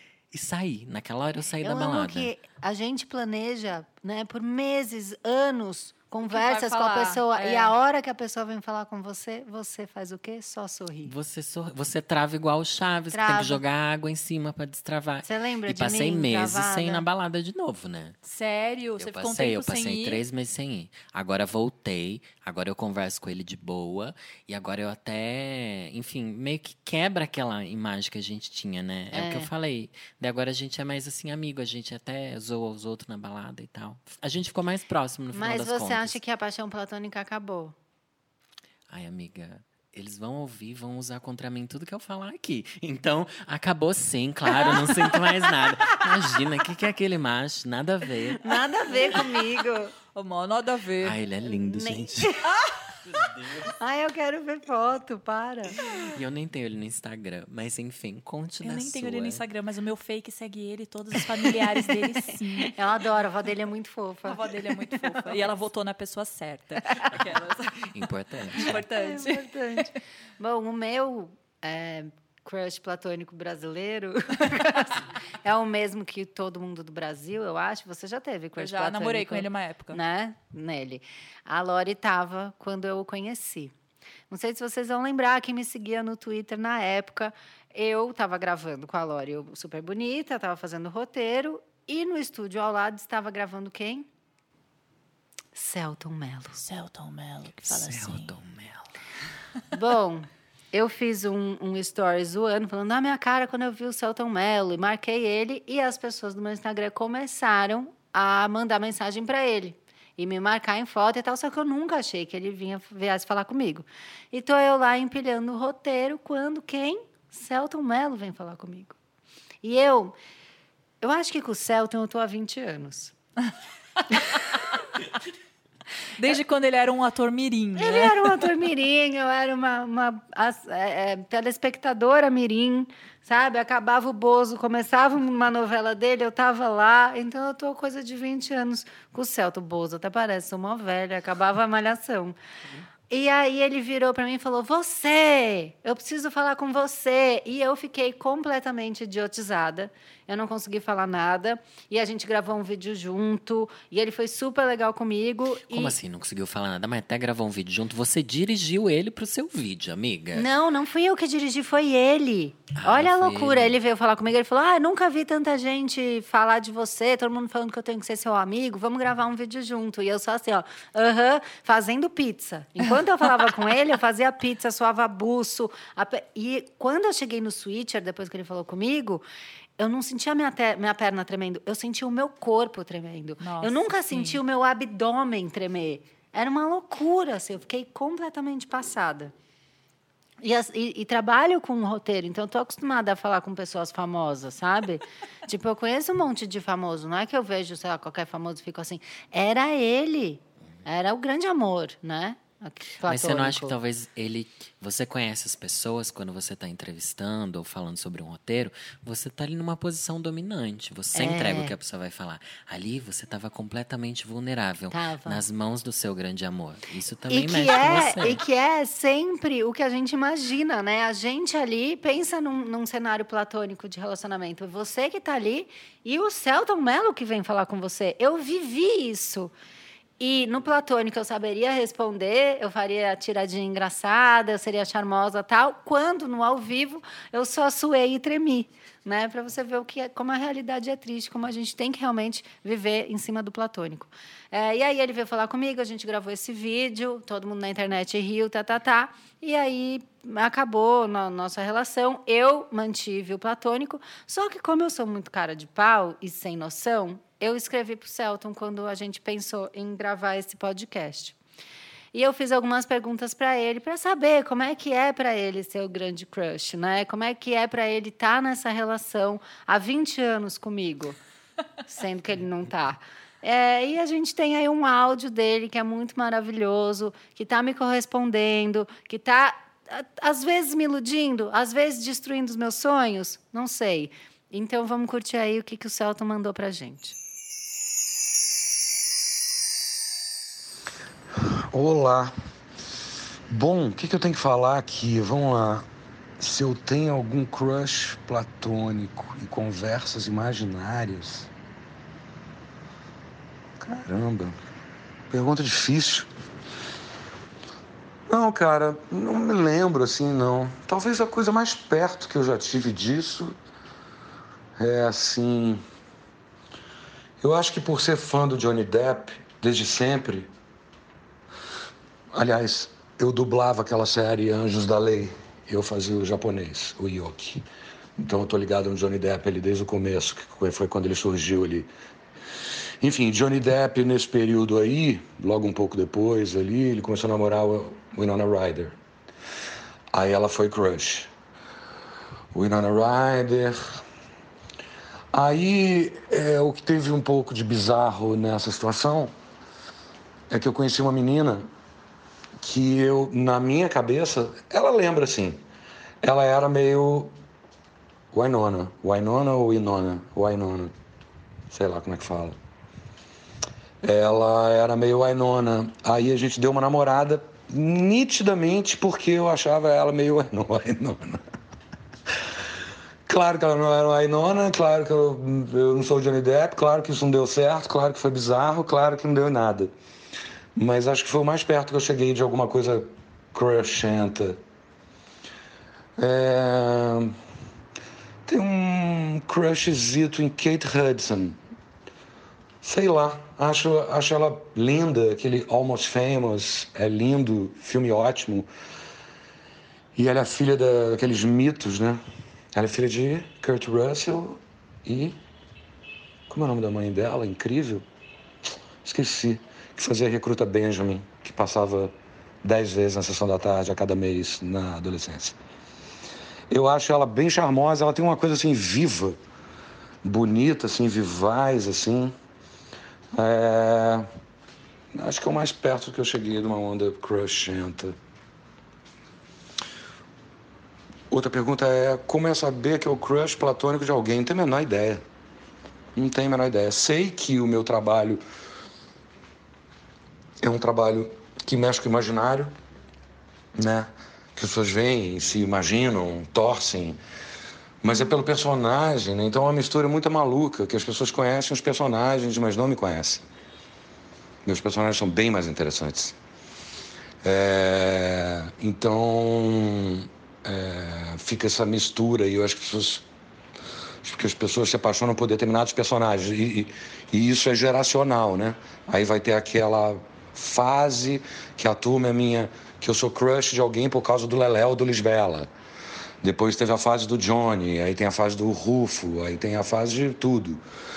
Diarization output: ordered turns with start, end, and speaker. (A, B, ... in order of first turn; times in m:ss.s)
0:00.3-0:02.3 A
0:01.6-0:11.1 B
0:06.3-0:07.7 C
0:11.0-0:18.2 A
0:13.1-0:13.6 B
0:15.2-0:17.0 B
0:18.2-0:20.2 C
0:19.0-0:36.2 A
0:29.1-0:29.5 B
0:35.3-0:37.8 B
0:38.9-0:48.6 A
0:48.4-0:49.9 B
0:50.1-0:51.2 C
0:51.0-0:52.4 A
0:51.5-0:52.4 B
0:53.1-0:53.7 A
0:53.8-0:55.8 B
0:56.0-0:59.4 A
0:58.6-1:02.8 C
1:02.6-1:05.5 B
1:04.3-1:08.0 C
1:07.9-1:08.8 A
1:08.5-1:10.0 C
1:08.6-1:23.7 B
1:18.6-1:20.0 C
1:24.3-1:34.1 B
1:35.6-1:36.6 B
1:36.6-1:38.3 C
1:37.6-1:38.9 A
1:39.7-1:59.0 B
1:59.6-2:00.1 B
2:01.0-2:03.1 B
2:06.2-2:08.4 C
2:07.8-2:22.4 B
2:23.1-2:36.0 B
2:35.7-2:40.5 A
2:40.4-2:59.2 B
2:42.8-2:43.8 A
2:59.8-3:09.3 B
3:03.4-3:04.4 C
3:10.4-3:23.8 B
3:23.0-3:38.4 A
3:31.1-3:31.7 B
3:34.9-3:35.4 B
3:37.3-3:49.5 B
3:50.2-4:21.4 B
4:22.1-4:31.2 B
4:31.9-4:47.2 B
4:51.7-4:52.3 D
4:53.5-4:55.9 D
4:56.4-5:01.5 D
5:03.8-5:04.6 D
5:05.3-5:06.3 D
5:08.3-5:13.6 D
5:14.8-5:15.8 D
5:17.4-5:20.5 D
5:22.3-5:27.6 D
5:28.2-5:31.9 D
5:33.0-5:39.0 D
5:40.1-5:41.3 D
5:42.5-5:44.0 D
5:45.3-5:49.3 D
5:50.5-5:51.7 D
5:52.6-5:55.6 D
5:56.2-5:57.3 D
5:58.3-6:00.9 D
6:01.7-6:02.6 D
6:04.0-6:11.4 D
6:13.3-6:19.9 D
6:20.8-6:24.6 D
6:26.2-6:27.4 D
6:28.4-6:31.6 D
6:32.8-6:38.7 D
6:40.1-6:42.2 D
6:42.7-6:45.4 D
6:46.5-6:48.0 D
6:49.0-6:52.1 D
6:52.6-6:55.6 D
6:56.7-6:59.4 D
7:00.2-7:02.3 D
7:03.4-7:04.3 D
7:05.1-7:08.1 D
7:11.3-7:15.2 D
7:16.2-7:18.4 D
7:20.6-7:22.7 D
7:23.8-7:27.2 D
7:28.0-7:33.4 D
7:34.6-7:36.4 D
7:37.4-7:43.2 D
7:44.2-7:55.7 D
7:56.4-8:00.8 D